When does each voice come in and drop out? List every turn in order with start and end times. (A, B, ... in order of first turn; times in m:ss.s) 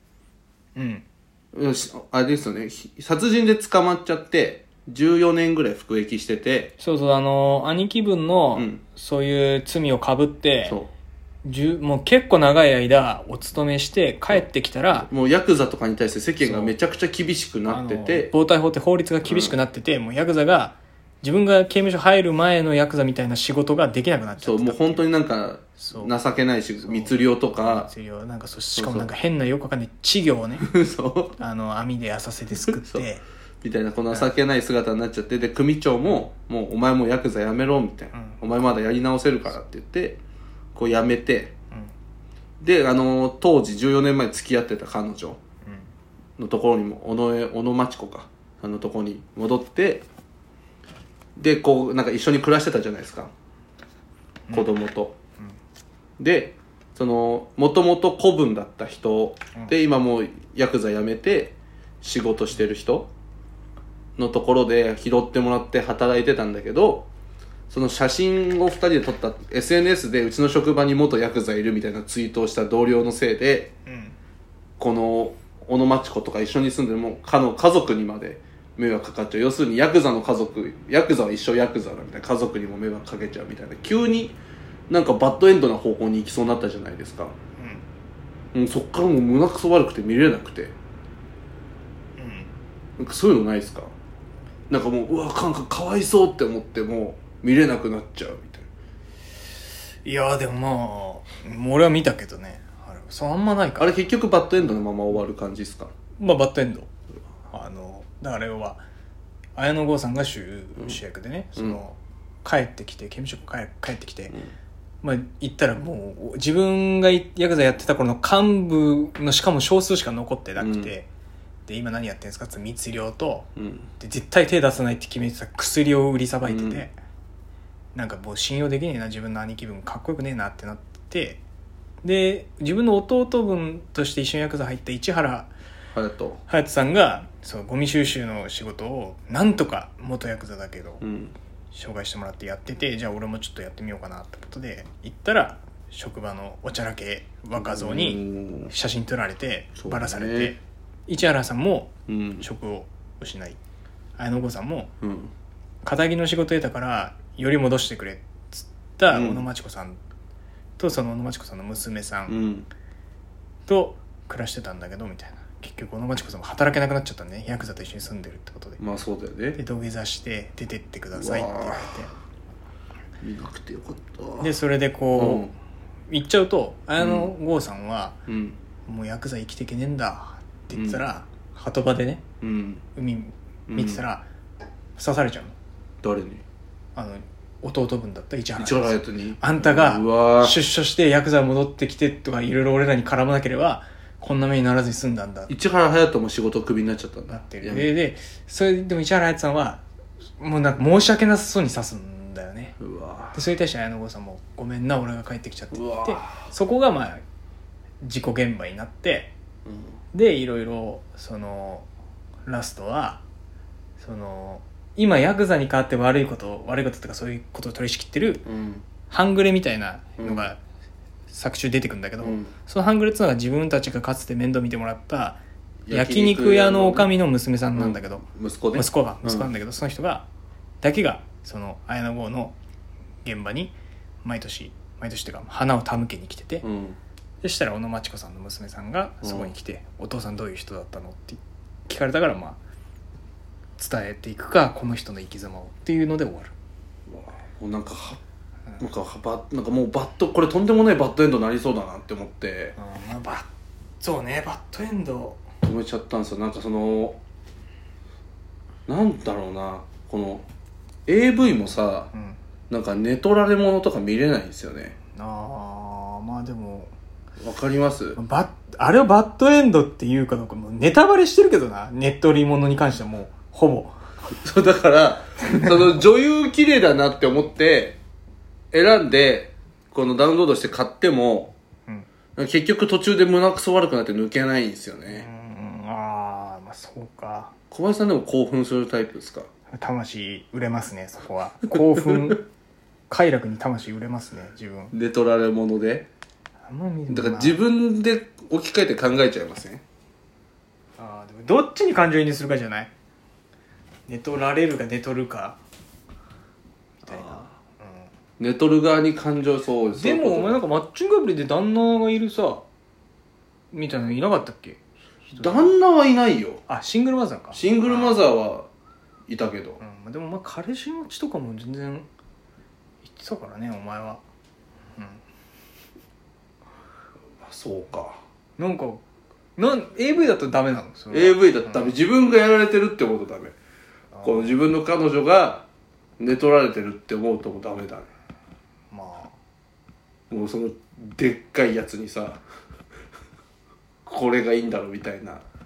0:00.8-0:01.0 A
0:01.5-0:06.7 B
0:06.8-0:10.8 A
0:08.5-0:08.8 B
0:10.7-0:10.9 B
0:11.4-0:15.1 A
0:14.3-0:18.3 B
0:16.4-0:16.7 A
0:17.7-0:25.0 A
0:19.2-0:19.5 B
0:24.4-0:27.9 B
0:25.8-0:26.1 A
0:26.8-0:30.7 A
0:28.8-0:29.1 B
0:30.6-0:31.4 B
0:31.4-0:33.2 A
0:32.7-0:33.0 B
0:33.6-0:40.2 B
0:38.2-0:38.5 A
0:40.7-0:41.5 B
0:42.6-0:45.4 B
0:46.4-0:50.0 B
0:51.4-0:53.3 B
0:54.5-0:54.8 A
0:54.5-0:55.2 B
0:56.2-1:03.1 B
1:04.2-1:07.1 B
1:07.7-1:13.7 B
1:13.8-1:14.2 A
1:14.8-1:24.4 B
1:24.9-1:27.3 B
1:27.6-1:27.8 A
1:28.5-1:30.7 B
1:32.2-1:32.5 A
1:33.0-1:33.9 B
1:34.7-1:38.7 B
1:40.0-1:43.9 A
1:43.8-1:45.9 B
1:46.2-1:46.9 A
1:47.5-1:48.8 A
1:49.6-1:54.3 A
1:55.0-2:01.1 A
2:00.6-2:00.9 B
2:01.7-2:03.5 A
2:03.6-2:03.9 B
2:04.0-2:06.9 A
2:06.4-2:06.8 B
2:07.9-2:11.4 A
2:12.0-2:15.5 A
2:15.9-2:16.4 B
2:16.5-2:21.0 A
2:21.0-2:21.3 B
2:21.7-2:33.6 A
2:27.6-2:28.7 B
2:29.8-2:30.6 B
2:32.1-2:32.4 B
2:34.2-2:34.9 A
2:35.0-2:35.3 B
2:35.8-2:40.0 A
2:39.1-2:39.5 B
2:40.8-2:42.4 A
2:42.3-2:42.7 B
2:43.7-2:48.8 A
2:48.8-2:49.6 B
2:49.6-2:52.1 A
2:51.1-2:52.0 B
2:53.2-2:54.5 B
2:54.4-2:55.5 A
2:55.2-2:55.5 B
2:56.1-2:58.2 A
2:57.0-2:57.3 B
2:58.3-2:58.6 B
2:58.8-3:02.2 A
3:00.7-3:01.0 B
3:02.4-3:02.8 B
3:03.0-3:04.2 A
3:03.7-3:04.0 B
3:05.0-3:05.5 A
3:06.0-3:06.4 B
3:07.0-3:15.5 A
3:08.6-3:10.6 B
3:15.5-3:17.9 B
3:17.3-3:19.8 A
3:20.4-3:22.8 A
3:22.8-3:23.4 B
3:23.3-3:27.2 A
3:25.7-3:26.5 B
3:28.0-3:29.3 A
3:29.6-3:29.9 B
3:30.1-3:31.9 A
3:32.4-3:33.2 A
3:34.0-3:38.4 A
3:38.4-3:38.8 B
3:39.1-3:40.6 A
3:40.2-3:40.5 B
3:41.3-3:50.2 A
3:42.2-3:42.5 B
3:45.9-3:47.1 B
3:47.7-3:49.5 B
3:50.8-3:52.6 A
3:53.2-3:56.6 A
3:56.6-3:57.0 B
3:57.4-4:02.6 A
3:59.2-3:59.5 B
4:03.8-4:06.5 A
4:07.1-4:08.2 B
4:08.8-4:12.8 B
4:12.8-4:13.5 A
4:14.0-4:15.4 A
4:15.6-4:17.2 B
4:18.9-4:20.4 B
4:21.1-4:22.1 B
4:22.1-4:22.4 A
4:22.7-4:24.9 B
4:25.1-4:26.9 A
4:27.4-4:28.2 B
4:28.2-4:34.0 A
4:34.3-4:38.0 B
4:38.7-4:41.5 B
4:42.4-4:45.3 B
4:45.1-4:47.5 A
4:47.7-4:49.5 B
4:49.7-4:52.5 A
4:53.1-4:54.9 A
4:54.9-4:56.1 B
4:56.7-4:57.6 A
4:57.1-4:59.8 B
5:01.0-5:02.9 A
5:04.1-5:05.6 A
5:07.0-5:08.1 A
5:07.0-5:07.5 B
5:08.4-5:10.6 B
5:10.0-5:12.6 A
5:13.7-5:14.8 A
5:15.3-5:15.7 A
5:15.4-5:16.6 B
5:16.7-5:18.3 A
5:17.5-5:18.7 B
5:19.3-5:19.8 B
5:19.8-5:22.1 A
5:23.0-5:24.2 A
5:25.0-5:25.2 A
5:27.4-5:28.2 B
5:28.6-5:29.0 A
5:29.6-5:32.0 A
5:31.1-5:33.6 B
5:34.1-5:34.6 A
5:34.2-5:35.7 B
5:36.2-5:38.1 B
5:38.9-5:39.4 A
5:40.3-5:42.4 B
5:44.0-5:45.4 B